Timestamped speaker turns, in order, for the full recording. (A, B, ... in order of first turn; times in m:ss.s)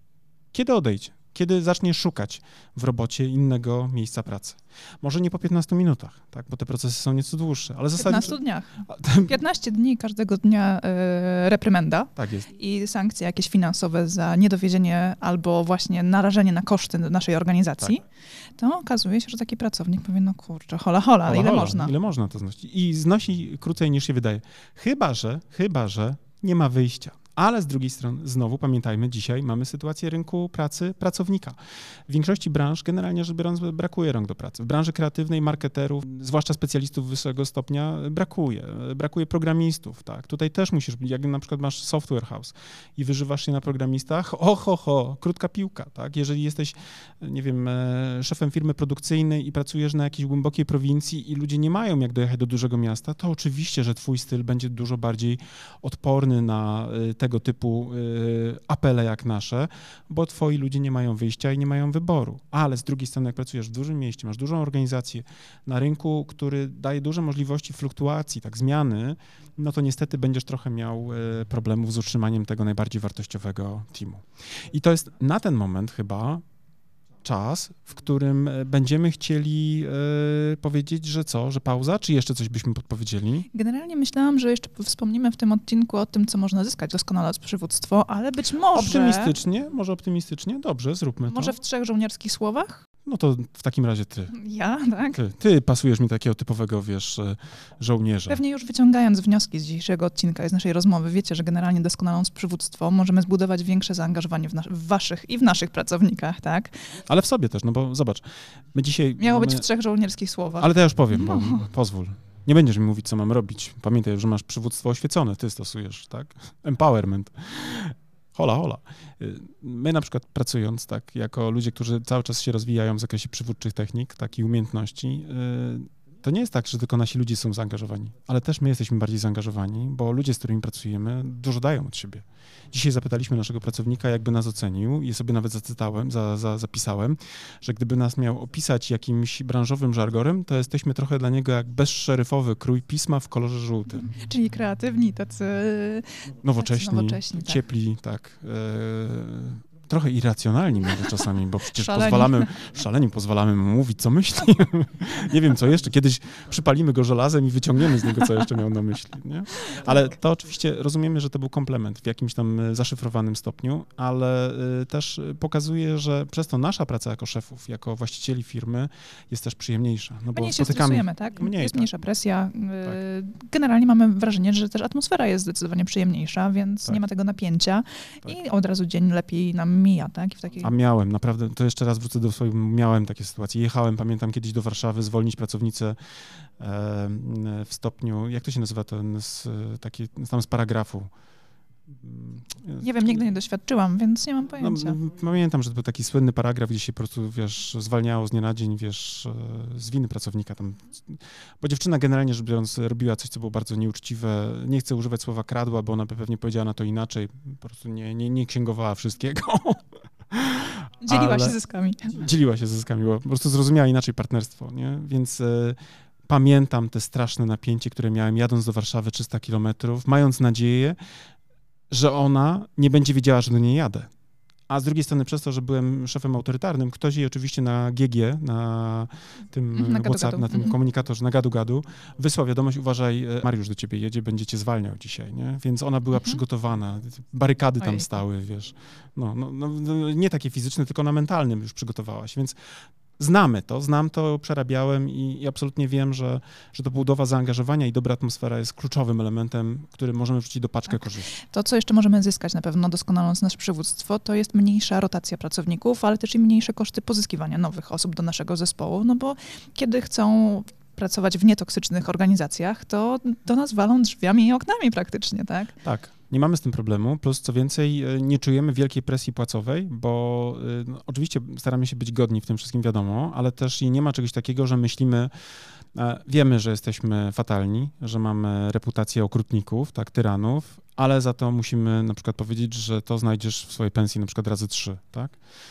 0:00.5-0:08.4 A
0:08.0-0:18.0 B
0:08.9-0:09.3 A
0:12.2-0:12.5 A
0:18.6-0:21.9 B
0:21.3-1:16.4 A
1:17.2-1:23.5 A
1:23.5-1:29.3 B
1:28.7-1:31.6 A
1:31.3-1:32.9 B
1:33.0-1:34.3 A
1:34.3-1:35.2 B
1:35.1-1:38.4 A
1:38.3-1:46.9 B
1:47.1-1:49.6 A
1:49.2-1:51.6 B
1:50.6-2:24.1 A
2:24.0-2:27.6 B
2:26.4-2:51.9 A
2:31.8-2:32.5 B
2:50.3-3:00.7 B
3:00.6-3:06.0 A
3:06.6-3:11.1 A
3:11.9-3:13.2 A
3:12.8-3:15.0 B
3:14.6-3:31.6 A
3:31.0-3:32.2 B
3:32.1-3:41.0 A
3:41.9-3:44.1 A
3:44.7-4:02.6 A
3:49.7-3:50.8 B
3:57.8-3:58.1 B
4:03.2-4:11.3 A
4:11.3-4:25.8 B
4:25.8-4:35.3 A
4:35.9-4:45.4 A